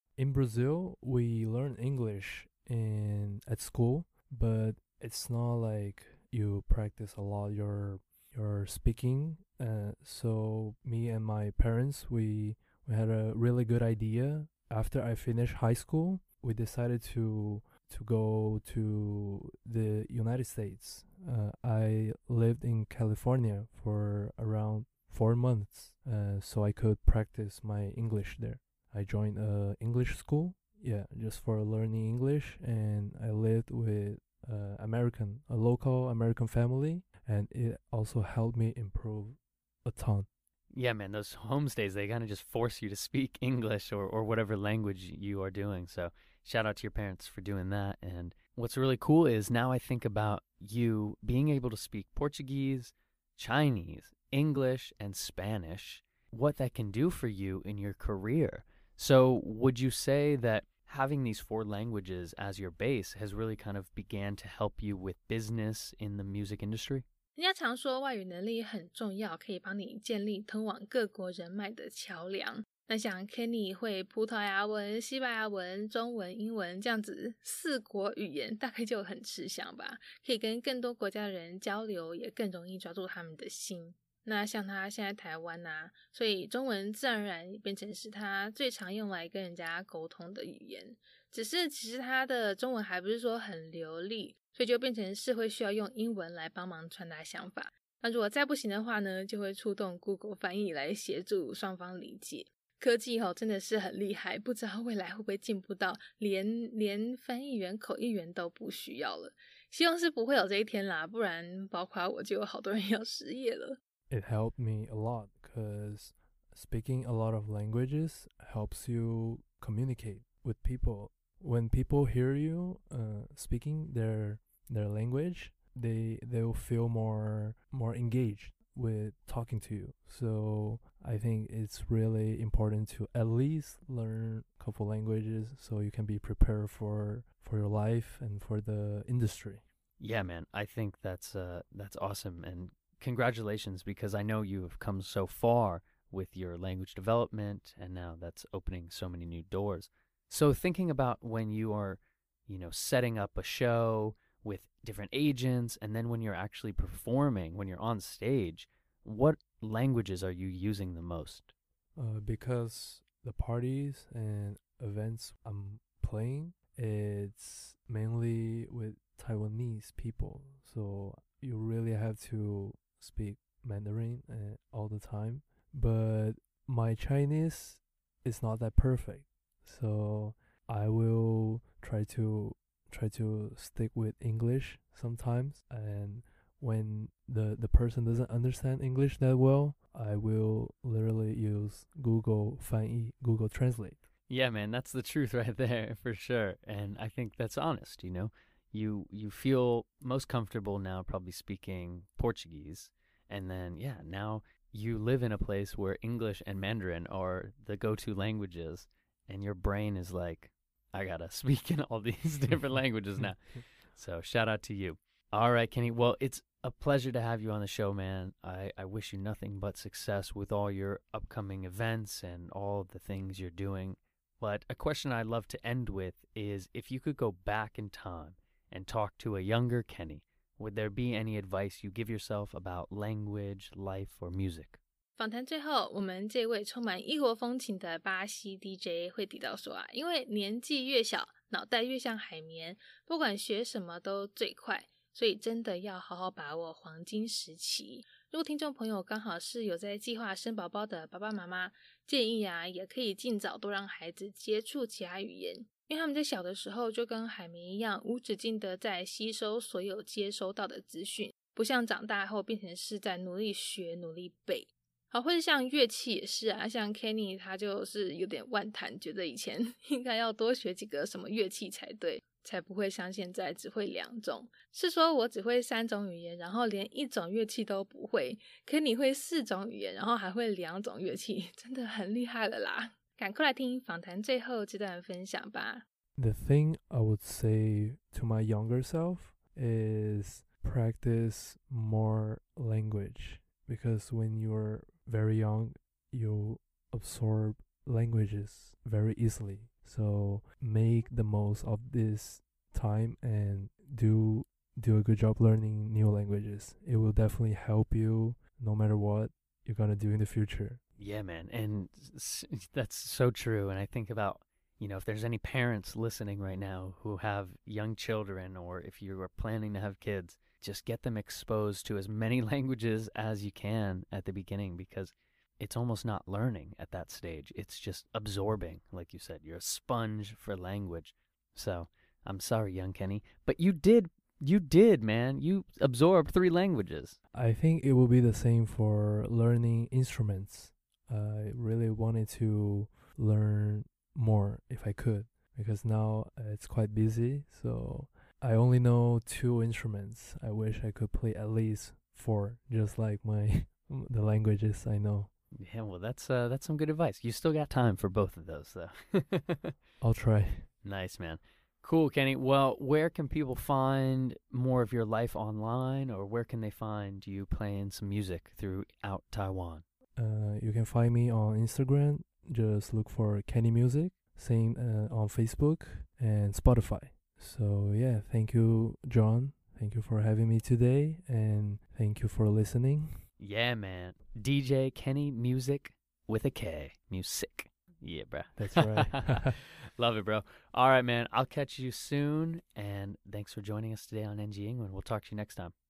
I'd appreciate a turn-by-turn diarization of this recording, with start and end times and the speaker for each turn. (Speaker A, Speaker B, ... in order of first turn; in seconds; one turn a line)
Speaker A: 0.2-40.3
Speaker B: 40.7-67.0
Speaker C: 67.3-113.8
Speaker A: 114.1-139.6
Speaker B: 140.0-161.5
Speaker A: 161.9-194.1
Speaker B: 194.3-234.8
Speaker C: 235.2-285.8
Speaker A: 286.1-310.8
Speaker B: 311.0-337.2
Speaker A: 337.3-355.3
Speaker B: 355.6-359.7
Speaker A: 360.0-360.7
Speaker B: 360.8-369.8
Speaker A: 370.2-383.2
Speaker B: 383.4-395.7
Speaker A: 388.6-389.5